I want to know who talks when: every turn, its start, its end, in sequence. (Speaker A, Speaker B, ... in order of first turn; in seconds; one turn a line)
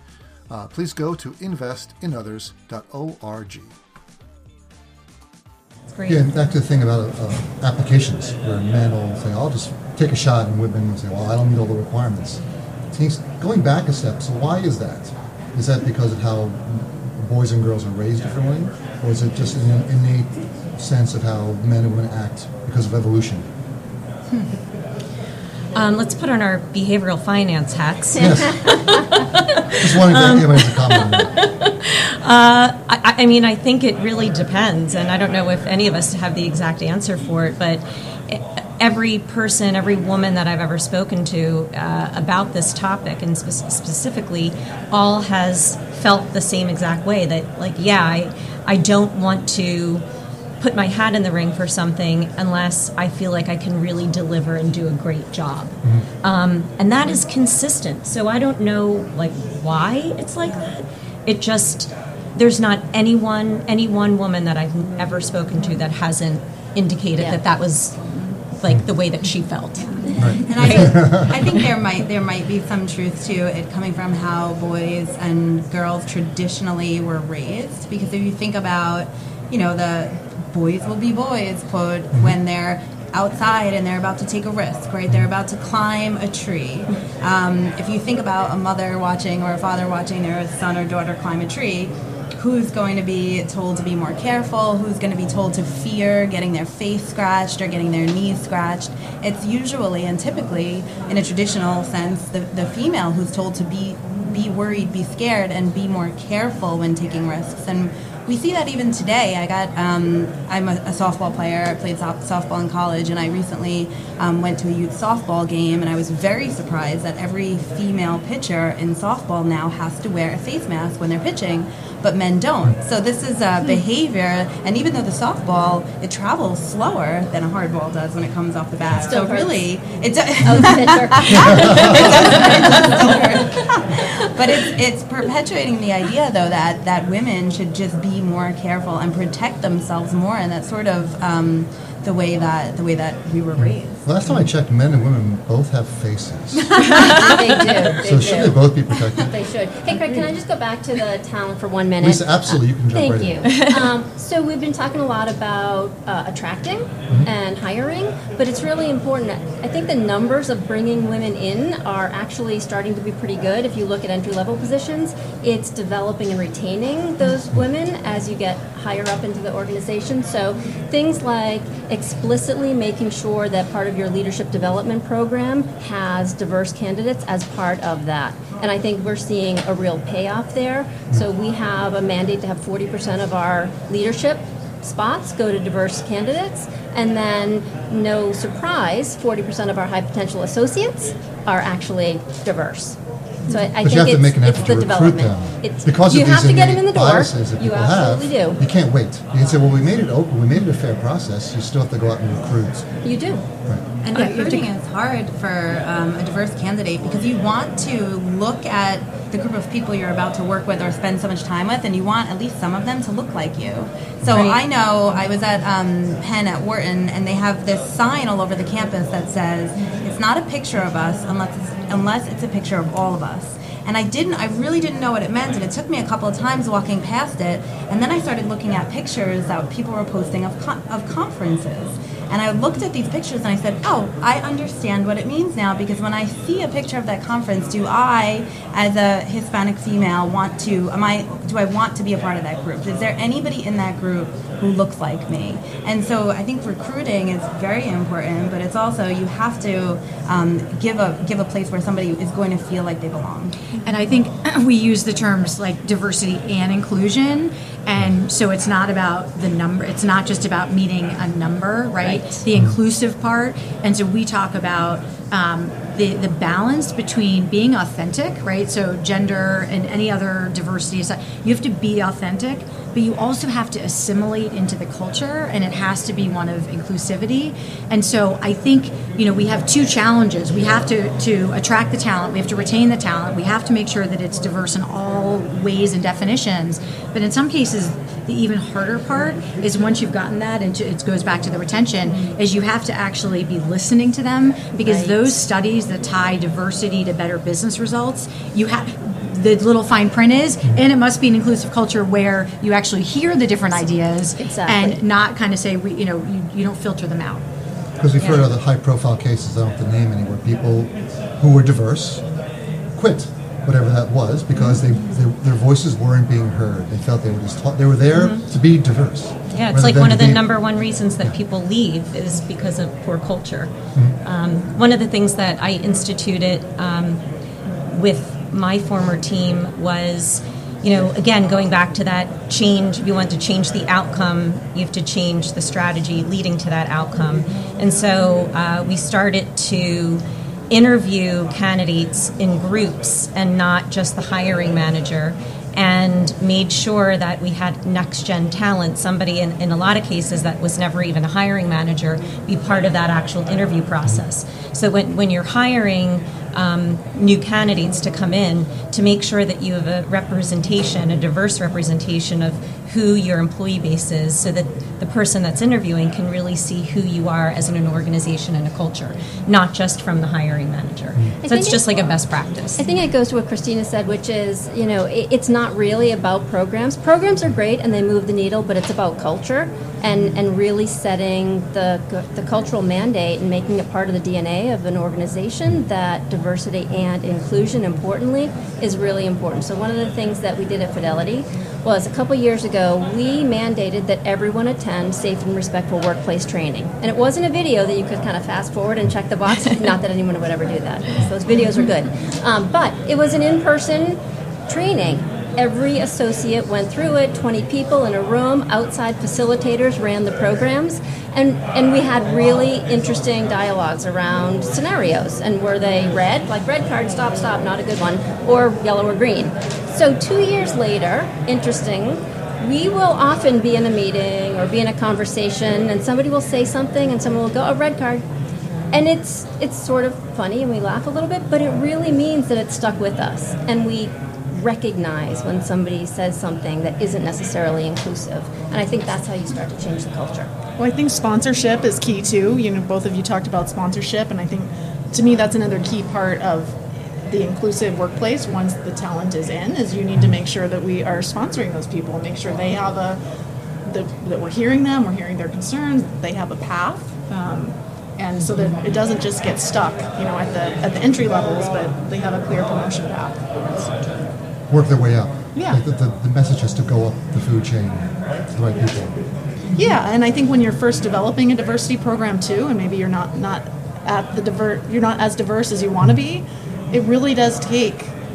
Speaker A: 0.5-3.8
Speaker B: 5.9-6.2
Speaker A: 6.0-12.4
Speaker A: 12.9-23.5
Speaker B: 25.7-50.0
Speaker A: 28.2-29.0
Speaker A: 29.8-31.4
Speaker B: 50.6-71.7
Speaker A: 70.2-71.4
Speaker C: 70.4-144.1
Speaker D: 129.0-129.6
Speaker D: 130.4-133.3
Speaker A: 131.3-132.1
Speaker A: 143.6-147.3
Speaker D: 146.8-198.6
Speaker A: 147.9-149.3
Speaker A: 152.0-153.5
Speaker A: 193.8-202.8
Speaker D: 203.0-203.4
Speaker C: 204.0-253.6
Speaker E: 204.1-204.7
Speaker E: 253.8-307.4
Speaker D: 294.8-295.2
Speaker D: 304.4-305.0
Speaker A: 308.0-312.2
Speaker B: 308.2-308.5
Speaker A: 312.9-320.4
Speaker B: 318.2-318.4
Speaker B: 319.5-327.2
Speaker B: 327.9-372.8
Speaker D: 371.4-371.8
Speaker D: 372.8-428.2
Speaker D: 428.9-440.5
Speaker F: 440.8-453.2
Speaker F: 453.8-464.1
Speaker A: 464.7-469.2
Speaker F: 465.6-465.8
Speaker F: 469.7-478.1